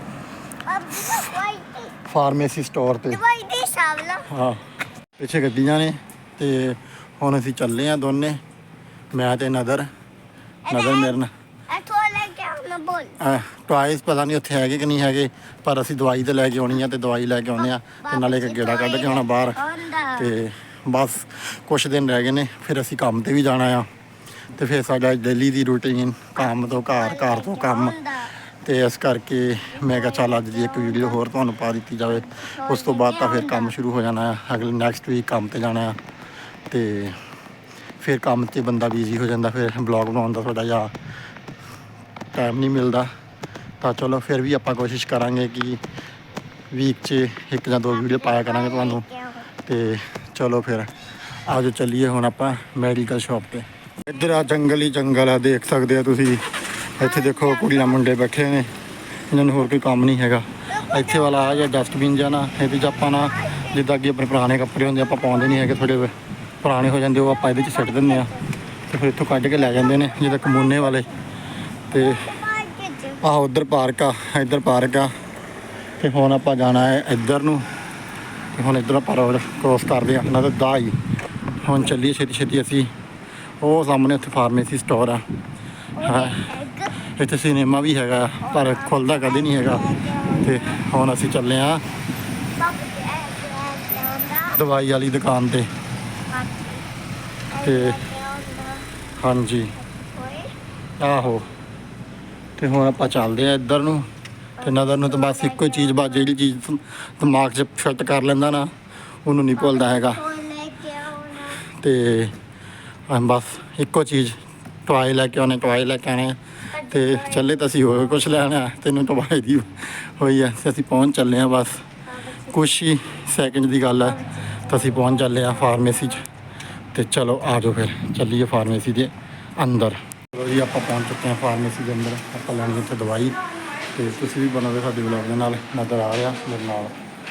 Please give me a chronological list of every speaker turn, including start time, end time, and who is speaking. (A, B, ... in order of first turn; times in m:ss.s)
0:00.6-0:01.9 A
0:02.0-0:03.2 B
0:03.1-0:04.3 A
0:04.3-0:08.4 B
0:09.1-0:09.9 B
0:10.6-0:11.2 A
0:10.7-0:11.3 B
0:11.7-0:13.2 A
0:13.2-0:19.6 B
0:17.6-0:20.3 A
0:20.2-0:23.9 B
0:24.5-0:28.0 B
0:27.0-0:28.3 A
0:28.6-0:36.0 B
0:29.8-0:31.2 A
0:32.1-0:33.7 A
0:36.7-0:37.2 B
0:38.0-0:40.9 B
0:42.3-0:43.1 B
0:43.8-0:45.8 B
0:46.7-0:49.0 B
0:47.9-0:49.5 A
0:49.6-0:50.9 B
0:51.4-0:58.7 B
0:57.0-0:58.0 A
0:59.3-1:08.3 B
1:00.7-1:01.4 A
1:03.3-1:03.8 A
1:05.2-1:05.8 A
1:07.3-1:08.4 A
1:08.9-1:11.1 B
1:09.6-1:11.1 A
1:11.9-1:12.3 B
1:11.9-1:13.2 A
1:13.2-1:15.1 B
1:16.0-1:17.6 B
1:18.5-1:21.0 B
1:21.6-1:22.9 B
1:23.6-1:25.2 B
1:26.0-1:27.0 A
1:26.0-1:26.4 B
1:27.0-1:29.9 B
1:28.4-1:30.8 A
1:30.4-1:31.8 B
1:32.6-1:34.6 A
1:34.6-1:35.7 B
1:36.3-1:36.8 A
1:37.5-1:38.9 A
1:37.6-1:38.0 B
1:39.2-1:39.7 B
1:39.8-1:40.5 A
1:41.0-1:41.4 B
1:42.6-1:44.0 B
1:44.6-1:46.3 A
1:44.6-1:48.7 B
1:49.2-1:50.2 B
1:49.6-1:51.6 A
1:51.6-1:52.3 B
1:53.1-2:01.8 B
1:56.7-1:57.9 A
2:02.1-2:02.6 A
2:02.5-2:06.2 B
2:04.0-2:05.8 A
2:06.9-2:13.4 B
2:13.9-2:16.9 B